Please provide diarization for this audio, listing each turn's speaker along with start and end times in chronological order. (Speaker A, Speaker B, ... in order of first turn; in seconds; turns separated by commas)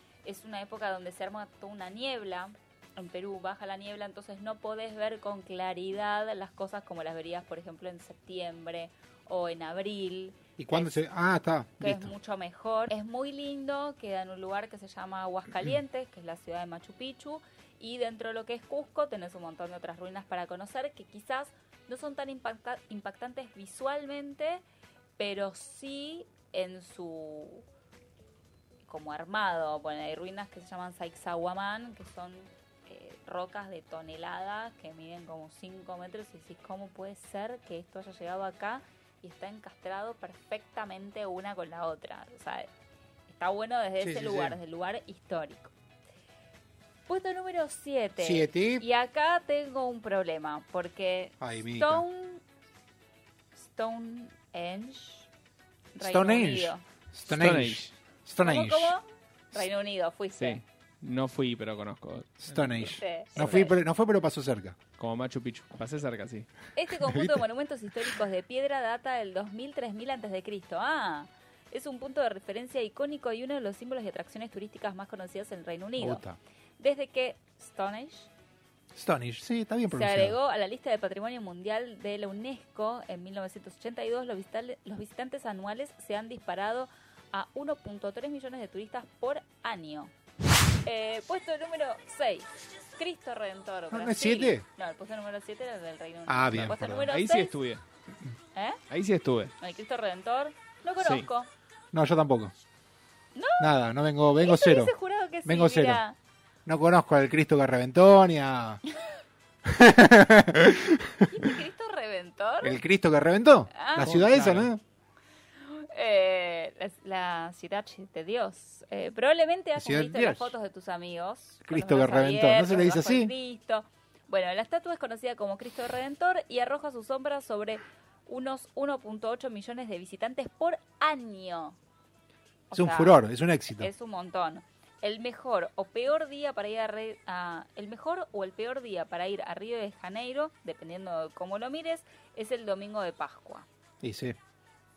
Speaker A: 0.2-11.0, Speaker B: 10.6-12.1, Speaker A: 11.8-24.6, Speaker A: 25.2-27.6, Speaker A: 28.8-42.7, Speaker A: 43.3-45.7, Speaker B: 44.0-44.6, Speaker A: 47.1-52.4, Speaker B: 48.2-48.8, Speaker B: 51.4-52.0, Speaker A: 53.5-55.3, Speaker A: 55.9-56.8, Speaker B: 56.0-58.9, Speaker C: 57.3-57.9, Speaker A: 58.4-60.6, Speaker C: 60.3-62.9, Speaker B: 62.4-64.8, Speaker A: 62.8-63.8, Speaker C: 65.0-66.5, Speaker A: 66.7-76.2, Speaker B: 67.0-67.4, Speaker B: 76.0-76.4, Speaker A: 76.8-78.3, Speaker B: 78.9-80.3, Speaker A: 79.9-90.1, Speaker A: 90.8-97.5, Speaker B: 93.9-94.6, Speaker B: 96.3-97.1, Speaker C: 97.1-97.8, Speaker A: 98.5-98.8, Speaker C: 98.9-99.5, Speaker A: 99.6-101.5, Speaker C: 101.0-101.3, Speaker B: 101.9-102.5, Speaker A: 103.3-103.7, Speaker B: 103.6-104.9, Speaker A: 104.4-106.2, Speaker B: 105.4-106.0, Speaker B: 106.7-108.8, Speaker B: 109.6-111.2, Speaker A: 111.2-112.8, Speaker B: 112.6-114.8, Speaker A: 113.7-114.1, Speaker C: 114.0-114.7, Speaker A: 115.6-131.8, Speaker B: 119.8-120.5, Speaker B: 121.6-123.3, Speaker A: 132.7-133.2, Speaker B: 132.7-133.9, Speaker A: 133.8-143.7, Speaker B: 144.0-144.3